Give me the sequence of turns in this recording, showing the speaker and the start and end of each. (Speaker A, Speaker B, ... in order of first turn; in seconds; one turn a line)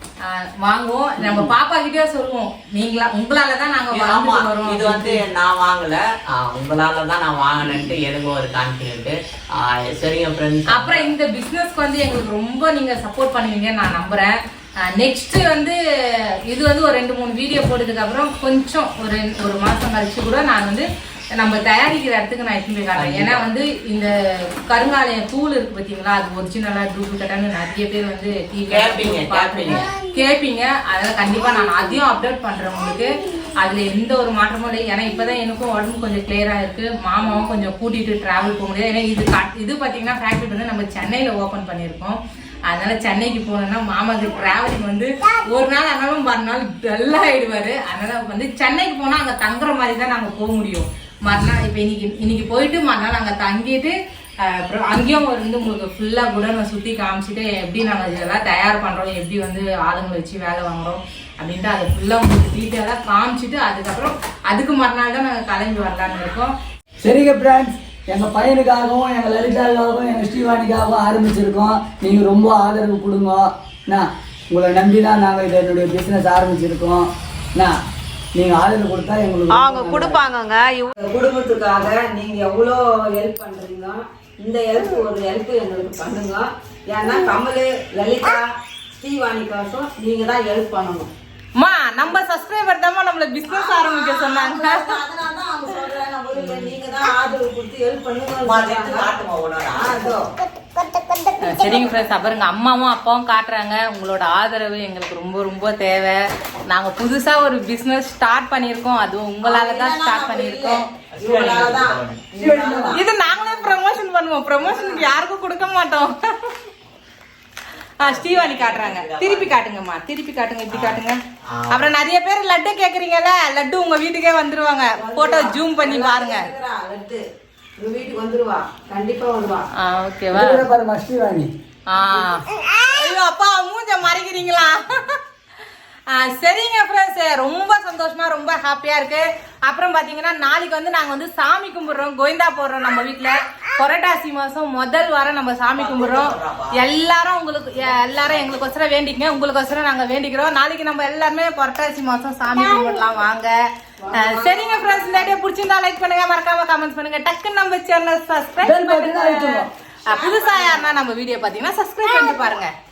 Speaker A: 0.2-5.2
Speaker B: 1.2-1.5
Speaker C: 3.9-11.1
Speaker A: 10.7-20.8
Speaker A: 21.4-24.1
Speaker C: 22.9-23.5
Speaker A: 24.6-66.5
Speaker C: 28.7-29.9
Speaker B: 67.0-77.7
Speaker B: 78.3-80.2
Speaker D: 79.5-91.1
Speaker A: 91.5-95.0
Speaker D: 93.5-99.1
Speaker A: 96.3-96.8
Speaker C: 98.4-100.1
Speaker D: 99.8-100.2
Speaker A: 101.4-110.9
Speaker D: 109.4-113.6
Speaker C: 111.1-112.3
Speaker B: 112.3-113.0
Speaker A: 112.9-116.1
Speaker D: 114.6-115.1
Speaker A: 118.0-126.5
Speaker C: 118.0-119.6
Speaker C: 120.7-121.9
Speaker D: 125.0-127.2
Speaker D: 127.8-129.7
Speaker A: 129.8-130.7
Speaker B: 130.3-131.5
Speaker A: 131.9-135.2
Speaker A: 136.1-153.6
Speaker C: 145.7-146.8
Speaker D: 154.0-155.3
Speaker A: 154.1-162.7
Speaker B: 158.6-159.7
Speaker D: 160.1-160.9